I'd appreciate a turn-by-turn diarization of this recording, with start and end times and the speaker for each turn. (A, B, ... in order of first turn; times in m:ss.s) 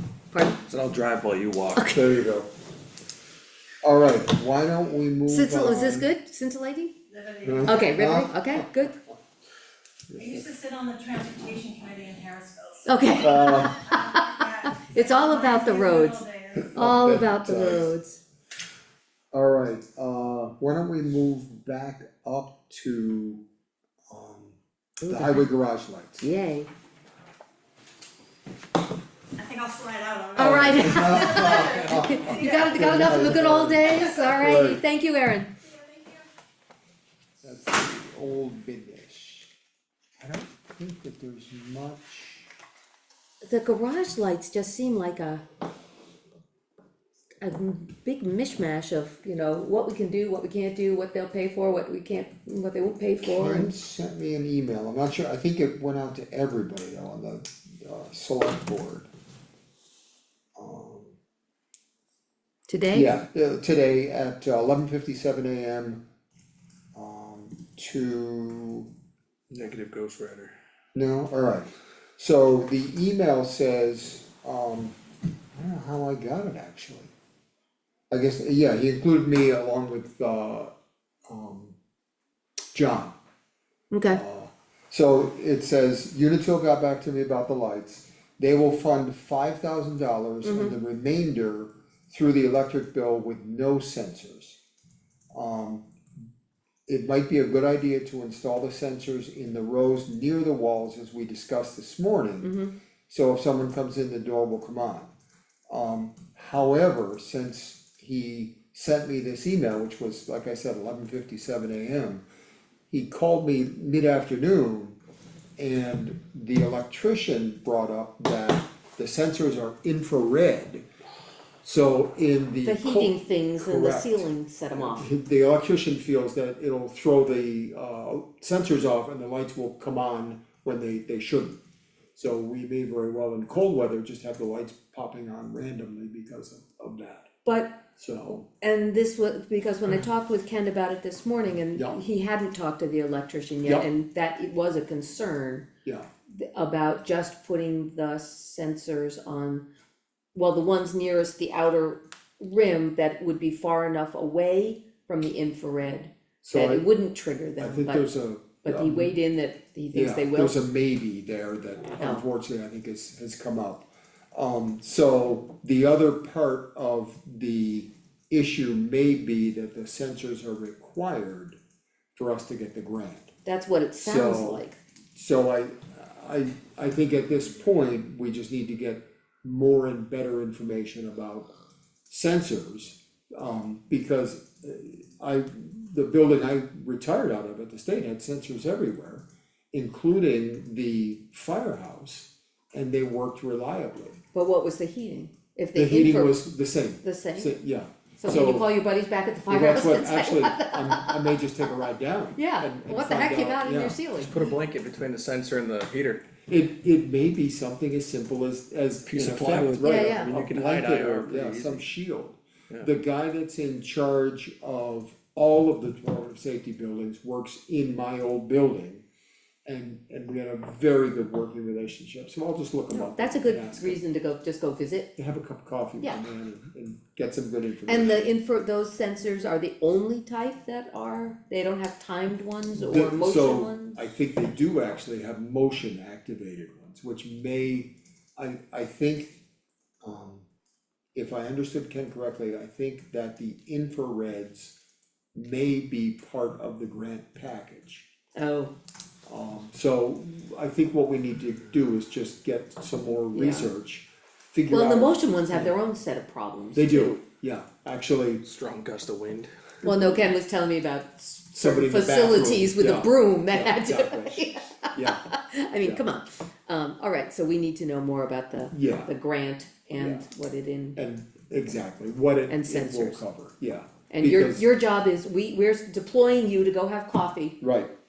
0:00.3-0:00.6 A
0:00.7-0:01.9 B
0:01.7-0:02.1 A
0:01.9-0:02.5 C
0:03.8-0:06.0 C
0:05.3-0:06.9 A
0:07.1-0:07.9 D
0:07.4-0:09.2 C
0:07.6-0:08.9 A
0:10.1-0:10.4 C
0:10.2-0:12.8 D
0:12.8-0:18.2 A
0:13.2-0:13.8 C
0:13.9-0:16.7 D
0:16.7-0:17.9 C
0:19.3-0:23.4 C
0:24.1-0:26.3 C
0:25.0-0:25.4 A
0:26.2-0:26.7 A
0:29.4-0:32.6 D
0:30.3-0:35.5 A
0:30.4-0:34.8 C
0:35.7-0:36.2 D
0:37.4-0:39.5 C
0:40.2-0:42.5 C
0:43.4-0:45.4 A
0:47.4-0:53.7 A
0:53.2-0:59.1 C
1:00.6-1:01.2 C
1:02.7-1:03.1 A
1:02.9-1:06.0 C
1:06.9-1:08.9 C
1:09.5-1:10.5 B
1:10.9-1:15.0 C
1:15.5-1:17.1 C
1:18.1-1:20.7 C
1:21.3-1:21.8 C
1:22.7-1:23.2 C
1:23.9-1:24.2 A
1:24.1-1:34.6 C
1:30.4-1:30.7 A
1:35.3-1:35.8 C
1:36.9-1:42.5 C
1:42.4-1:42.7 A
1:43.1-1:45.1 C
1:45.7-1:52.2 C
1:52.9-1:55.0 C
1:55.6-2:00.8 C
2:01.6-2:11.6 C
2:02.6-2:05.1 A
2:12.1-2:17.3 C
2:17.4-2:17.8 A
2:17.9-2:18.4 C
2:18.6-2:25.7 A
2:26.3-2:29.6 A
2:30.3-2:38.0 A
2:36.4-2:36.8 C
2:37.6-2:39.1 C
2:38.6-2:40.6 A
2:39.9-2:51.6 C
2:42.0-2:42.2 A
2:52.1-2:53.3 C
2:53.4-2:54.8 A
2:54.0-3:01.5 C
3:02.1-3:14.2 C
3:14.3-3:16.4 A
3:15.7-3:18.7 C
3:17.0-3:17.6 A
3:18.2-3:21.4 A
3:19.5-3:24.0 C
3:22.3-3:24.4 A
3:24.2-3:26.2 B
3:26.5-3:39.0 C
3:29.1-3:31.8 B
3:29.8-3:30.3 A
3:39.6-3:44.0 C
3:42.9-3:45.1 A
3:45.2-3:48.3 C
3:47.9-3:54.0 A
3:52.8-3:59.4 C
4:00.0-4:00.4 C
4:01.1-4:04.7 C
4:05.3-4:08.1 C
4:08.4-4:08.7 A
4:09.3-4:15.7 C
4:13.3-4:13.7 A
4:14.7-4:17.2 A
4:16.7-4:18.4 C
4:18.4-4:19.5 B
4:19.8-4:31.0 A
4:21.5-4:25.3 C
4:28.7-4:29.1 C
4:30.0-4:30.2 C
4:31.0-4:34.6 C
4:32.5-4:33.2 A
4:34.1-4:37.6 A
4:37.6-4:37.9 C